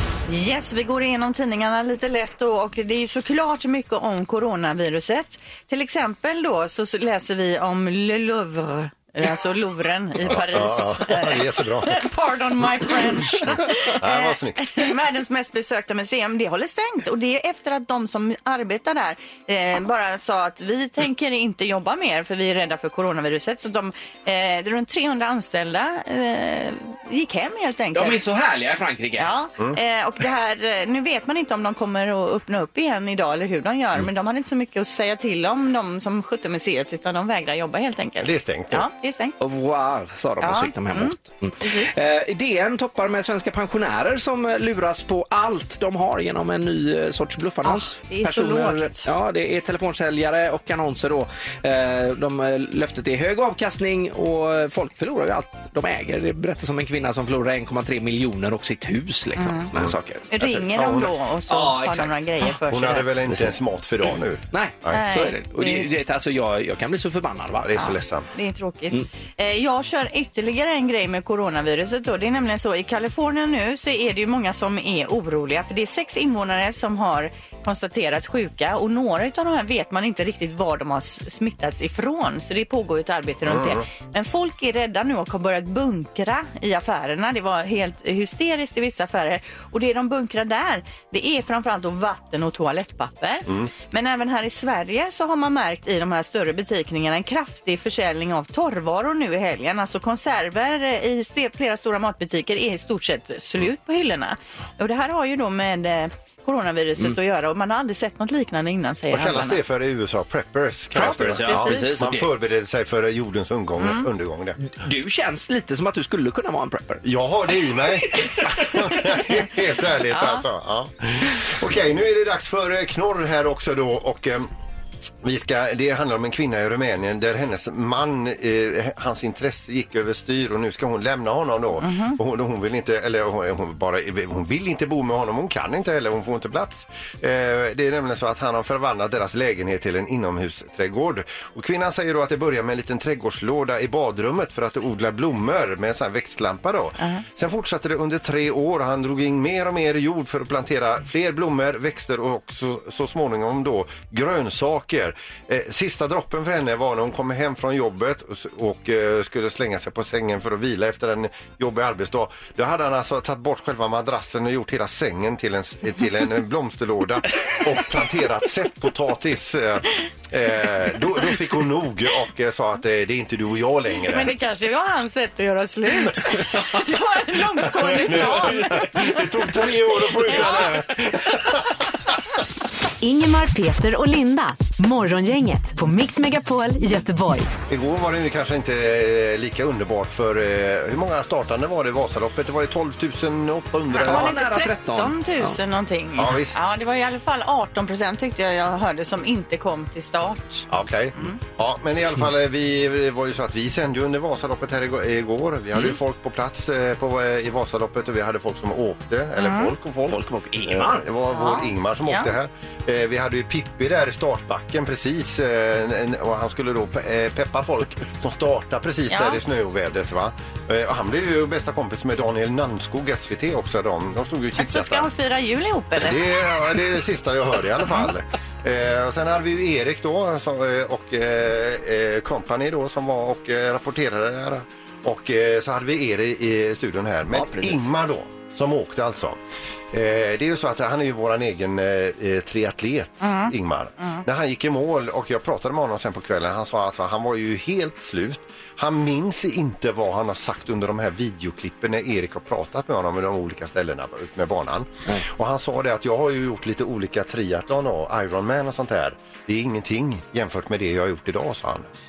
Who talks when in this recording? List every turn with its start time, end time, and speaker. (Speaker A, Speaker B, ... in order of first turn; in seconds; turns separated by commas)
Speaker A: 0.3-28.2, Speaker B: 10.2-12.0, Speaker B: 13.3-14.9, Speaker C: 27.9-29.3, Speaker A: 29.2-39.4, Speaker B: 38.2-38.9, Speaker C: 39.4-60.6, Speaker A: 40.4-41.9, Speaker A: 47.6-49.1, Speaker A: 59.4-59.7, Speaker A: 60.3-63.1, Speaker B: 60.7-61.1, Speaker C: 61.5-62.4, Speaker B: 62.7-65.0, Speaker C: 64.5-67.7, Speaker A: 64.9-65.9, Speaker B: 67.6-68.3, Speaker A: 67.8-109.6, Speaker B: 83.5-83.8, Speaker B: 109.1-114.6, Speaker C: 111.0-112.3, Speaker A: 111.0-112.0, Speaker A: 113.8-114.1, Speaker C: 114.6-117.0, Speaker B: 117.0-124.5, Speaker A: 120.1-120.5, Speaker B: 125.2-174.3, Speaker A: 131.8-132.2, Speaker A: 174.0-180.7, Speaker B: 177.8-181.8, Speaker D: 183.0-187.5, Speaker B: 187.7-194.4, Speaker A: 193.9-201.4, Speaker C: 194.0-195.6, Speaker B: 196.2-196.6, Speaker B: 200.7-225.1, Speaker A: 209.4-209.7, Speaker C: 210.1-211.1, Speaker A: 211.3-212.3, Speaker A: 219.1-219.4, Speaker A: 224.6-226.2, Speaker B: 226.0-239.4, Speaker C: 237.3-237.9, Speaker B: 239.9-261.9, Speaker A: 243.2-244.2